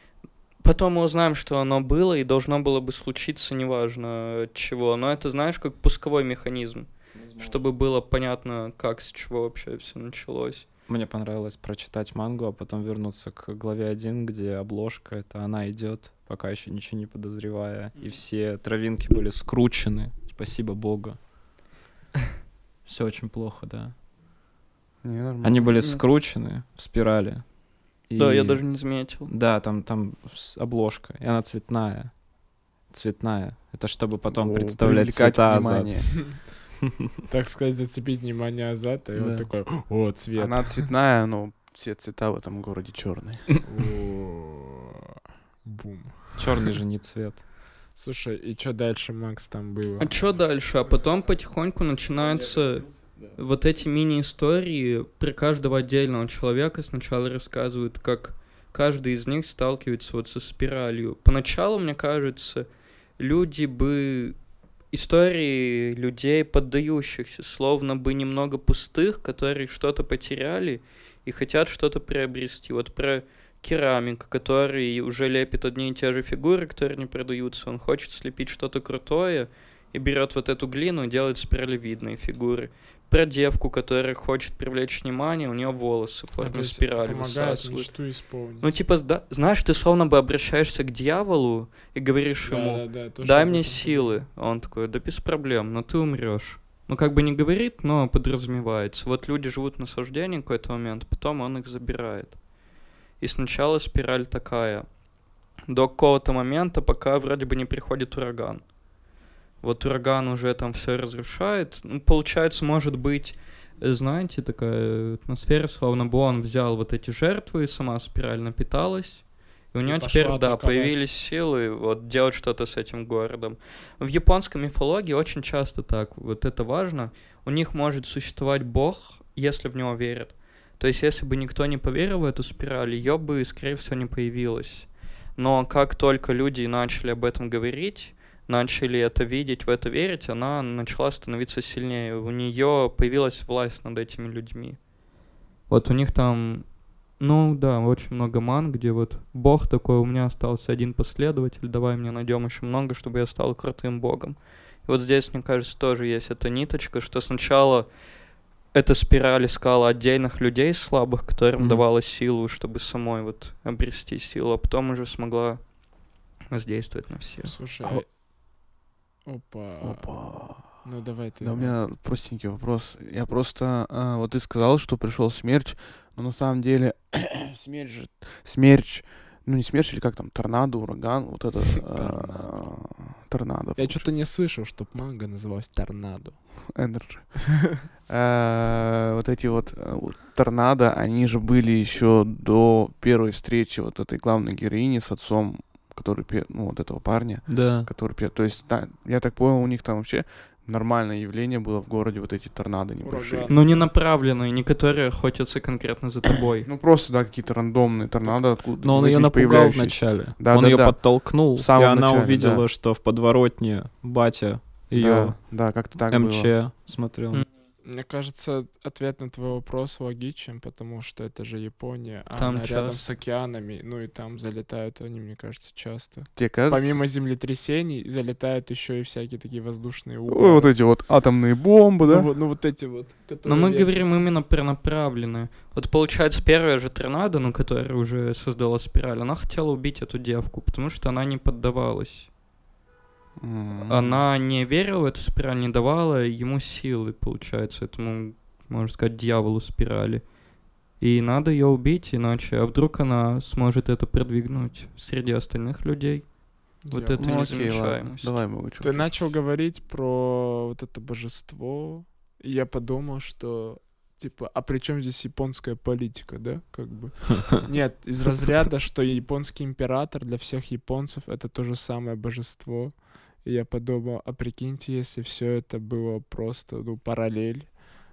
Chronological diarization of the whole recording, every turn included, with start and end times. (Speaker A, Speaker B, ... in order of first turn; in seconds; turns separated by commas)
Speaker A: 0.6-10.7, Speaker B: 7.1-7.6, Speaker B: 10.9-21.2, Speaker B: 22.9-23.9, Speaker C: 25.0-25.8, Speaker B: 25.4-27.4, Speaker B: 28.1-28.6, Speaker A: 28.2-29.3, Speaker B: 29.3-32.1, Speaker B: 32.9-36.1, Speaker C: 34.3-36.1, Speaker D: 37.3-40.9, Speaker B: 39.2-39.5, Speaker C: 40.4-43.5, Speaker D: 43.7-45.1, Speaker D: 45.6-46.7, Speaker B: 46.4-47.4, Speaker D: 48.0-50.1, Speaker A: 50.0-62.7, Speaker A: 63.2-64.4, Speaker A: 64.9-88.0, Speaker D: 86.4-88.7, Speaker A: 88.6-102.4, Speaker D: 92.5-94.2, Speaker A: 103.2-104.9, Speaker A: 105.7-108.6, Speaker A: 109.6-144.8, Speaker D: 119.8-121.0, Speaker A: 145.7-146.7, Speaker A: 147.2-157.9, Speaker A: 158.7-165.6, Speaker B: 161.6-161.8, Speaker A: 166.5-167.5, Speaker D: 167.4-168.1, Speaker D: 169.3-170.1, Speaker C: 169.8-170.7, Speaker D: 170.8-171.8, Speaker C: 171.4-184.1, Speaker B: 181.9-182.6, Speaker D: 183.8-186.4, Speaker C: 186.8-187.4, Speaker C: 188.1-203.5, Speaker B: 197.5-197.9, Speaker D: 203.0-203.8, Speaker A: 203.5-206.7, Speaker C: 206.7-212.7, Speaker B: 208.8-215.4, Speaker C: 214.9-216.5, Speaker B: 216.1-217.4, Speaker D: 217.8-230.7, Speaker A: 222.3-223.0, Speaker C: 226.4-227.0, Speaker C: 230.3-232.3, Speaker D: 232.1-234.2, Speaker A: 233.4-242.3, Speaker C: 243.4-244.2, Speaker A: 243.9-250.2, Speaker A: 251.0-256.3, Speaker D: 256.9-257.7, Speaker A: 256.9-258.4, Speaker C: 257.2-259.1, Speaker D: 258.8-277.8